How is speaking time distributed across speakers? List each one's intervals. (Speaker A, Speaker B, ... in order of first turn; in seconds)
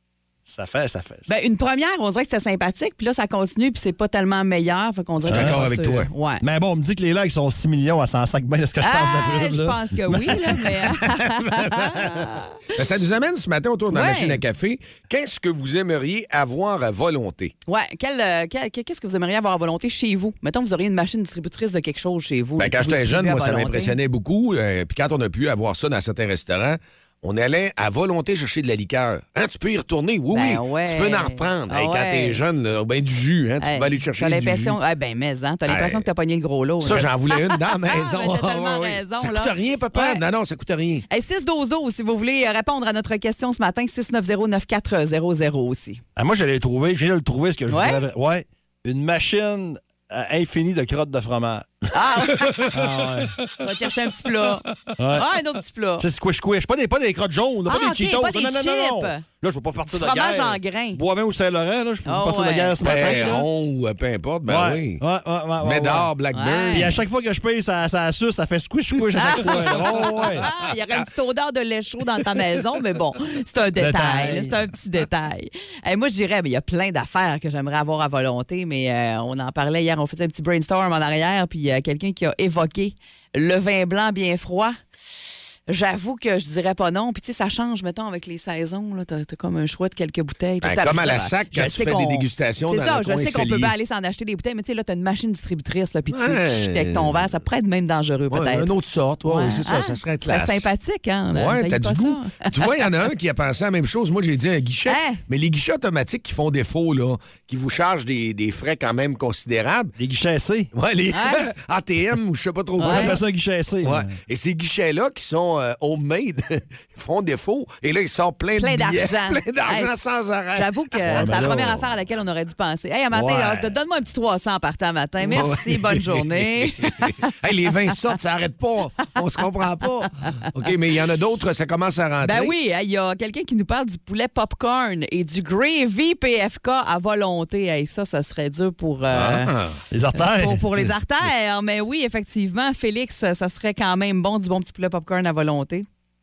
Speaker A: 0.4-1.3, 5.3-5.6, 6.4-12.3, 46.1-51.8, 52.7-53.4, 55.0-55.3, 56.0-63.5, 64.5-66.1, 66.7-70.5, 73.8-74.6, 110.0-110.7, 112.8-114.1, 121.1-121.8, 123.1-123.7, 125.3-125.6, 139.9-140.7
Speaker B: 1.3-6.4, 8.8-12.6, 13.9-14.4, 17.6-23.9, 30.3-32.4, 33.6-40.2, 41.1-46.0, 47.7-48.0, 51.9-52.7, 53.6-56.0, 57.7-59.2, 59.9-61.0, 62.0-63.4, 66.3-66.9, 69.2-84.8, 85.7-98.7, 99.2-102.6, 104.9-105.2, 111.1-111.5, 112.8-113.2, 118.5-119.9, 120.5-127.2, 132.2-139.5, 140.1-145.8
Speaker C: 5.2-6.1, 12.7-17.5, 22.6-34.8, 35.7-36.0, 36.8-41.0, 62.8-65.0, 65.6-67.0, 90.6-93.7, 96.1-97.3, 98.3-100.7, 101.3-109.9, 110.7-113.2, 113.8-120.9, 125.3-132.5, 139.1-139.8